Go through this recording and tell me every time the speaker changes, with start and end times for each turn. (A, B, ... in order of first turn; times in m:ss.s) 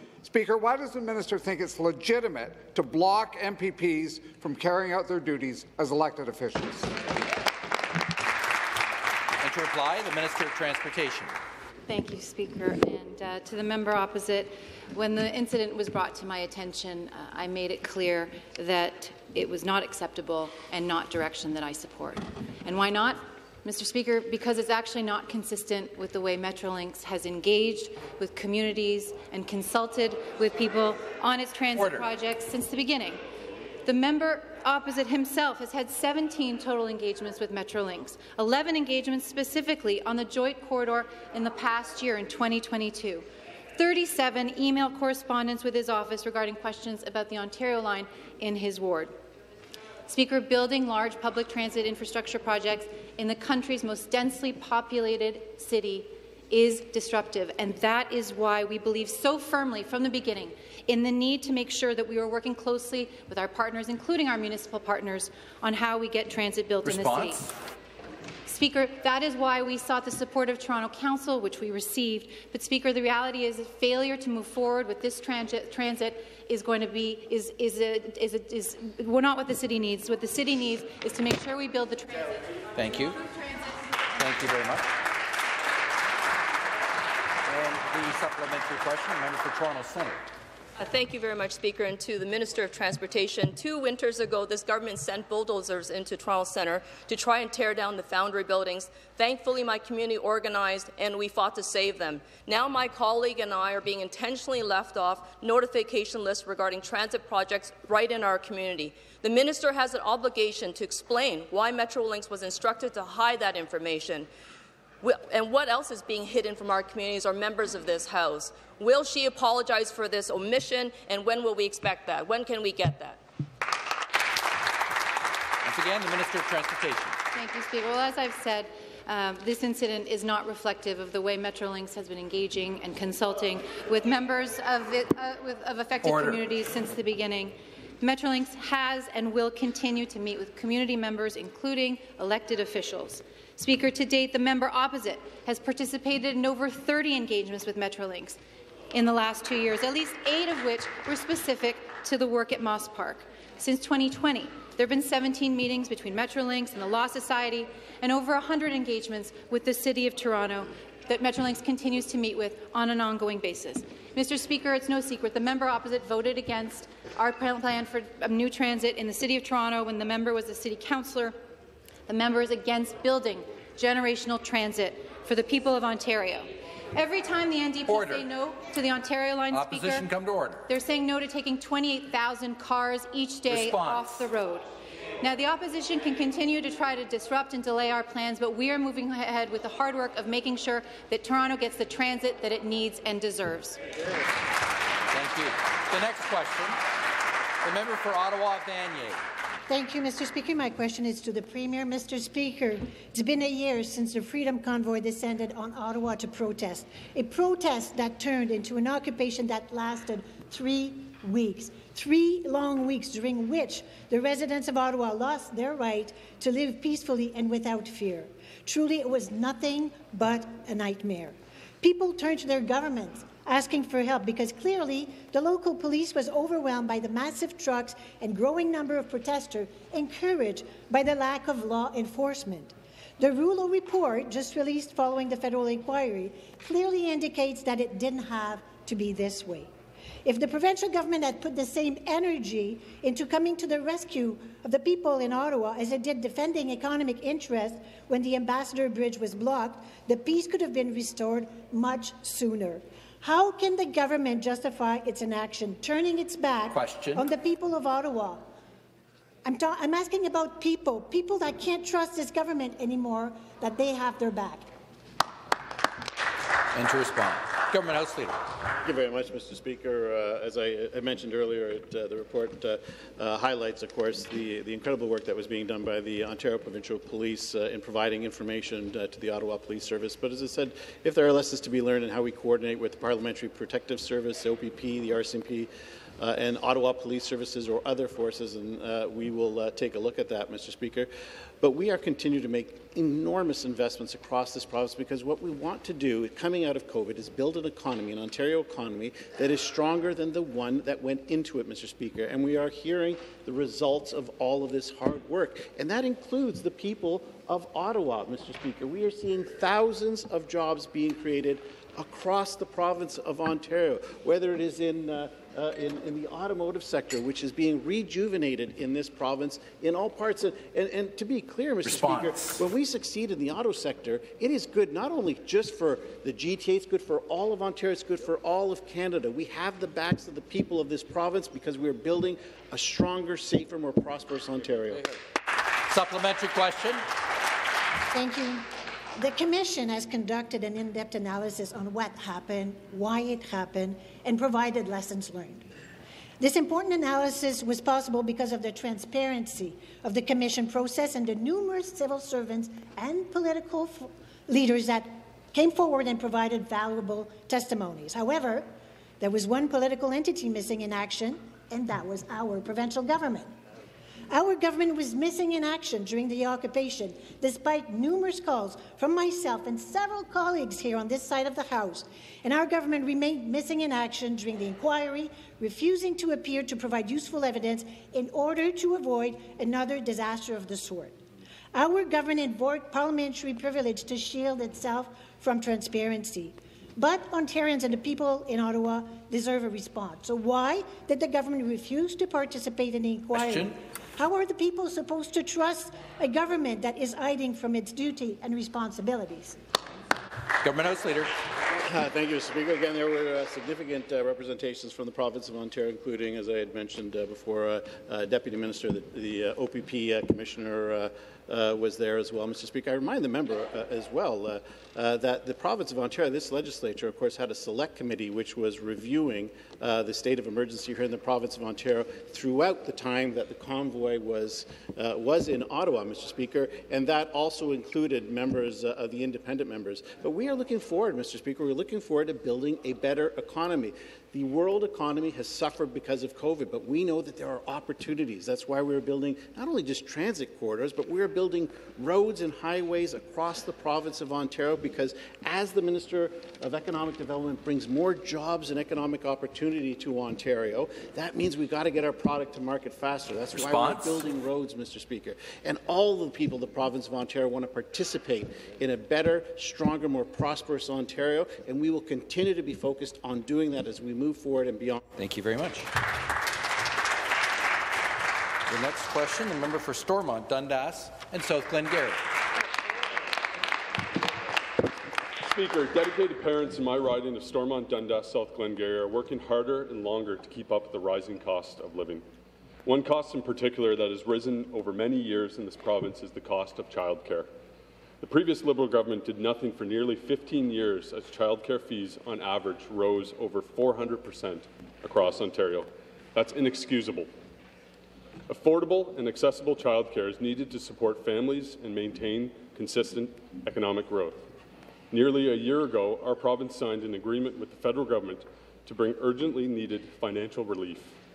0:00.2-0:07.0 A
0:09.4-0:11.3 B
0:11.9-0:33.2 C
0:31.8-0:32.1 B
0:33.8-0:43.3 C
0:43.8-0:49.2 C
0:50.1-1:07.4 C
1:06.8-1:07.5 B
1:08.5-1:22.6 C
1:22.8-1:23.2 B
1:23.2-1:24.0 C
1:24.2-1:24.9 B
1:27.5-1:30.2 B
1:30.8-1:54.3 D
1:55.0-2:03.2 D
2:05.6-2:07.2 B
2:07.3-2:28.4 C
2:16.0-2:16.4 B
2:28.9-2:51.4 C
2:52.1-3:00.1 C
2:57.9-2:58.3 B
2:59.5-3:00.6 B
3:00.7-3:04.7 C
3:03.5-3:04.0 B
3:05.2-3:13.8 C
3:15.1-3:16.8 B
3:17.6-3:19.2 B
3:19.7-3:59.7 E
4:00.2-4:18.5 E
4:16.7-4:17.3 B
4:19.4-4:24.7 E
4:26.7-4:28.4 B
4:28.8-4:51.1 F
4:51.6-5:35.1 F
5:21.8-5:22.6 B
5:35.9-5:37.0 B
5:38.1-5:38.7 E
5:39.2-5:45.6 E
5:46.4-5:58.7 E
5:59.2-6:03.5 E
6:04.3-6:21.2 E
6:21.7-6:39.6 E
6:33.4-6:33.7 B
6:40.6-6:41.3 B
6:41.8-7:45.0 F
7:33.5-7:34.2 B
7:45.2-7:45.9 B
7:48.7-7:52.3 B
7:55.4-8:02.2 G
8:02.8-8:07.5 G
8:08.2-8:17.3 G
8:18.5-8:24.4 G
8:25.1-8:31.1 G